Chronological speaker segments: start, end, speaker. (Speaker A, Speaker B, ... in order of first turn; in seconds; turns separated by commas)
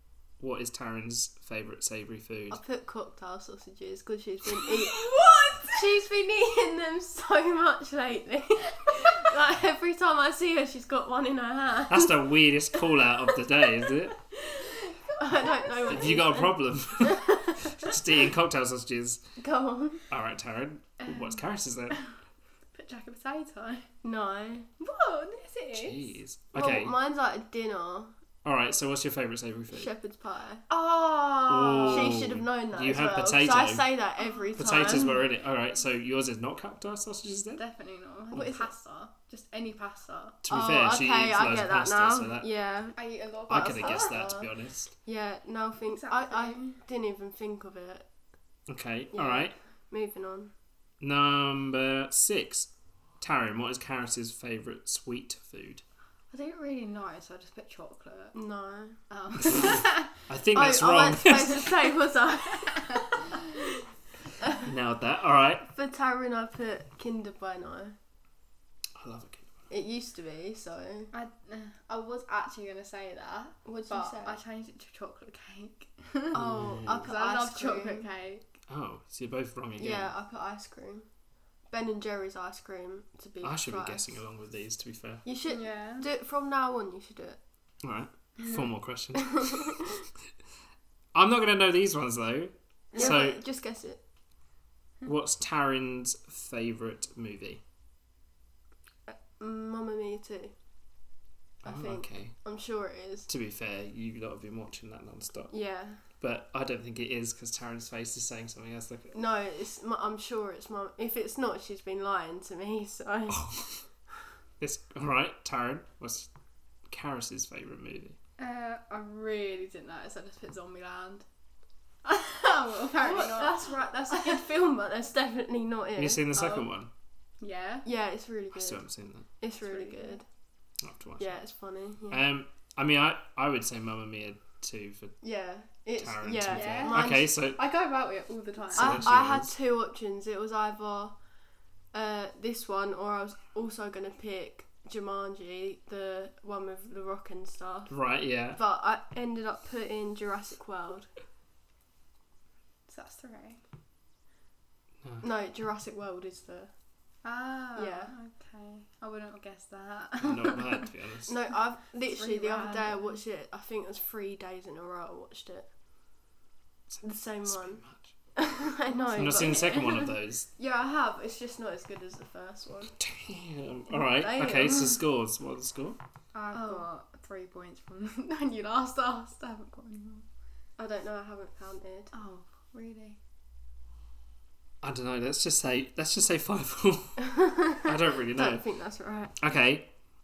Speaker A: 0.4-2.6, Speaker B: 2.5-5.1, Speaker C: 4.6-5.8, Speaker B: 5.6-12.8, Speaker A: 11.9-14.2, Speaker C: 14.9-16.2, Speaker B: 15.2-17.9, Speaker A: 15.9-19.2, Speaker B: 19.4-20.0, Speaker A: 20.1-22.0, Speaker C: 21.0-22.1, Speaker C: 22.7-23.9, Speaker B: 24.0-24.7, Speaker C: 24.8-26.1, Speaker A: 25.7-26.9, Speaker B: 26.6-28.1, Speaker A: 28.4-29.9, Speaker B: 29.7-35.3, Speaker A: 31.5-33.9, Speaker C: 34.2-35.1, Speaker A: 34.5-37.6, Speaker C: 37.6-40.4, Speaker B: 38.3-38.7, Speaker A: 40.4-42.5, Speaker B: 40.5-43.0, Speaker C: 43.0-44.2, Speaker B: 43.5-44.5, Speaker A: 43.5-44.9, Speaker B: 45.0-48.1, Speaker C: 45.9-46.8, Speaker A: 48.7-49.5, Speaker B: 49.1-50.5, Speaker A: 51.0-55.8, Speaker C: 56.3-58.4, Speaker B: 58.3-59.0, Speaker C: 59.1-60.1, Speaker A: 60.3-61.7, Speaker B: 60.5-63.7, Speaker C: 62.6-63.2, Speaker A: 64.7-65.7, Speaker B: 65.7-68.0, Speaker A: 69.0-69.5, Speaker B: 69.7-71.1, Speaker C: 71.1-78.5, Speaker B: 73.7-74.4, Speaker A: 76.3-77.1, Speaker B: 76.3-78.1, Speaker A: 78.7-80.1, Speaker B: 79.8-81.1, Speaker B: 81.7-84.2, Speaker A: 83.4-85.2, Speaker B: 85.2-87.4, Speaker C: 85.5-86.1, Speaker A: 87.8-89.8, Speaker B: 89.2-89.8, Speaker A: 91.1-93.4, Speaker B: 92.9-94.0, Speaker A: 95.0-97.6, Speaker B: 99.1-100.5, Speaker B: 101.6-103.3, Speaker A: 101.7-102.3, Speaker A: 103.3-105.5, Speaker B: 105.5-106.0, Speaker A: 106.2-109.2, Speaker B: 109.1-113.6, Speaker A: 113.3-113.8, Speaker A: 114.6-116.3, Speaker A: 116.9-118.2, Speaker C: 118.4-121.2, Speaker C: 122.0-124.4, Speaker B: 123.0-126.3, Speaker A: 126.0-126.9, Speaker C: 126.3-126.7, Speaker C: 127.4-127.9, Speaker B: 127.8-128.8, Speaker A: 128.6-129.3, Speaker B: 129.4-130.2, Speaker C: 129.6-130.2, Speaker A: 130.8-131.3, Speaker B: 131.2-132.2, Speaker A: 132.1-135.2, Speaker B: 135.2-137.3, Speaker A: 136.0-137.6, Speaker C: 136.5-139.1, Speaker A: 138.7-139.5, Speaker B: 138.8-141.2, Speaker B: 141.9-148.0, Speaker A: 147.9-148.6, Speaker B: 148.6-151.1, Speaker C: 152.9-153.6, Speaker B: 155.2-156.7, Speaker C: 157.2-160.9, Speaker B: 157.8-158.1, Speaker A: 160.2-161.3, Speaker B: 161.3-165.7, Speaker C: 162.1-163.2, Speaker A: 166.9-168.0, Speaker B: 167.0-167.8, Speaker B: 168.4-173.0, Speaker C: 169.0-169.6, Speaker A: 169.2-170.5, Speaker A: 173.0-176.0, Speaker B: 173.9-175.0, Speaker C: 176.3-180.2, Speaker B: 176.5-176.9, Speaker B: 180.8-182.1, Speaker C: 182.1-183.2, Speaker A: 184.8-187.2, Speaker B: 187.2-189.3, Speaker A: 187.8-188.6, Speaker A: 189.4-189.9